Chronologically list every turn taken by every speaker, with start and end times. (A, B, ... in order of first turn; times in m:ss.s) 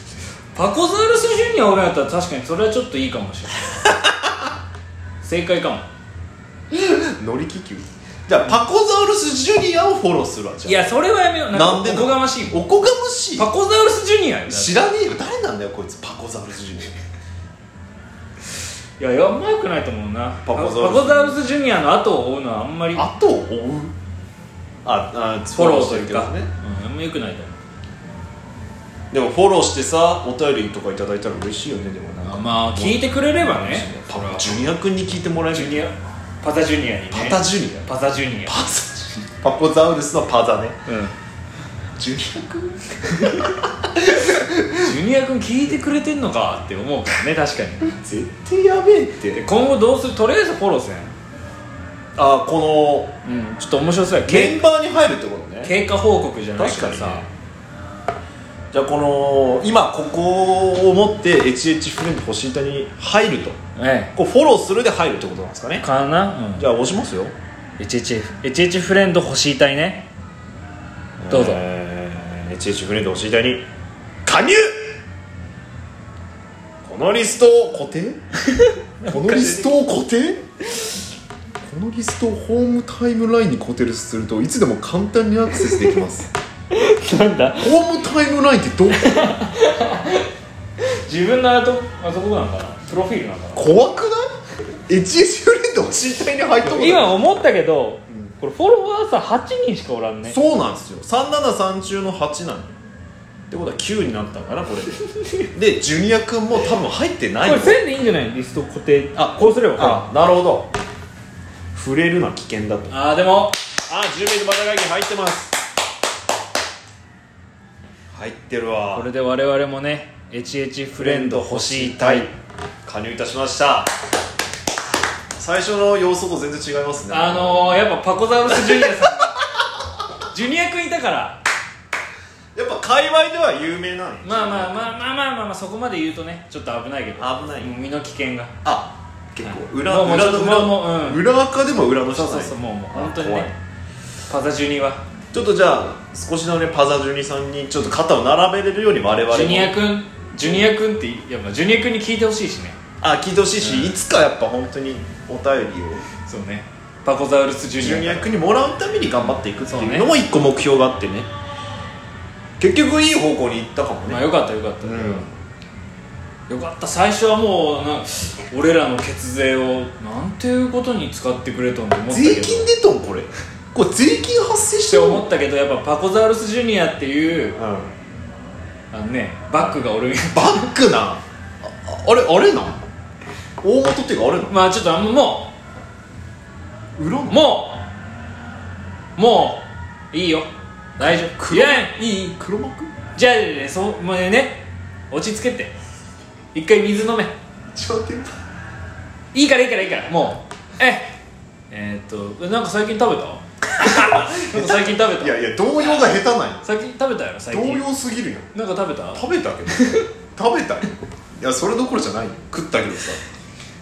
0:00.5-0:03.8 A
0:03.9-0:04.3 B
0:05.2-0:05.9 A
0:06.7-0:10.9 B
0:10.6-0:12.6 A
0:11.5-0:13.5 B
0:13.4-0:14.7 A
0:14.5-0:17.0 B
0:19.0-0:23.1 A
0:20.4-0:21.4 B
0:22.9-0:23.9 B
0:24.8-0:26.5 B
0:25.5-0:27.6 A
0:29.1-0:35.8 B
0:32.3-0:34.6 A
0:35.5-0:38.6 A
0:37.1-0:37.8 B
0:38.4-0:40.8 B
0:40.9-0:41.1 A
0:42.0-0:44.9 B
0:44.8-0:47.8 A
0:47.8-0:49.4 B
0:49.3-0:51.1 A
0:52.2-0:53.1 B
0:53.2-0:54.6 A
0:54.2-0:55.7 B
0:55.6-0:57.2 A
0:56.6-0:57.3 B
0:58.7-1:03.6 B
1:03.8-1:04.1 A
1:04.1-1:05.8 B
1:05.8-1:06.7 A
1:06.6-1:07.3 B
1:07.8-1:10.1 A
1:11.2-1:13.6 B
1:11.3-1:11.6 A
1:14.2-1:14.7 B
1:16.8-1:18.2 B
1:18.5-1:19.7 A
1:19.0-1:20.5 B
1:21.6-1:26.3 B
1:26.7-1:27.7 A
1:27.6-1:29.3 B
1:29.0-1:30.3 A
1:30.8-1:33.7 A
1:33.6-1:34.2 B
1:34.9-1:37.2 B
1:36.6-1:40.4 A
1:40.2-1:42.7 B
1:43.5-1:45.0 B
1:45.5-1:47.8 B
1:47.4-1:50.1 A
1:49.1-1:50.7 B
1:51.7-1:52.9 B
1:52.9-1:53.6 A
1:53.9-1:55.5 B
1:58.1-1:59.1 B
1:58.9-2:02.3 A
2:01.0-2:02.3 B
2:02.8-2:03.9 B
2:05.4-2:07.8 B
2:07.1-2:09.4 A
2:08.4-2:09.4 B
2:10.3-2:11.4 A
2:12.5-2:15.0 B
2:14.2-2:18.5 A
2:17.2-2:17.8 B
2:18.6-2:23.5 B
2:19.4-2:21.2 A
2:22.1-2:23.5 A
2:24.3-2:25.0 A
2:25.3-2:29.8 B
2:29.3-2:32.8 A
2:33.0-2:36.0 B
2:33.6-2:33.9 A
2:36.2-2:38.3 A
2:37.8-2:41.3 B
2:39.6-2:40.1 A
2:42.6-2:44.2 B
2:44.1-2:45.3 A
2:44.8-2:45.3 B
2:46.5-2:52.7 A
2:52.1-2:55.2 B
2:54.9-2:57.6 A
2:57.6-2:57.9 B
2:58.9-3:00.7 A
3:00.3-3:02.8 B
3:03.6-3:04.6 B
3:04.5-3:05.5 A
3:07.0-3:07.4 B
3:07.3-3:07.8 A
3:09.2-3:12.3 A
3:11.0-3:12.9 B
3:13.2-3:15.7 A
3:16.5-3:17.3 A
3:17.7-3:18.4 B
3:19.3-3:21.2 A
3:21.7-3:25.4 A
3:23.8-3:26.6 B
3:26.6-3:27.9 A
3:27.5-3:28.5 B
3:28.5-3:29.2 A
3:29.1-3:30.9 B
3:29.8-3:30.0 A
3:31.4-3:33.2 B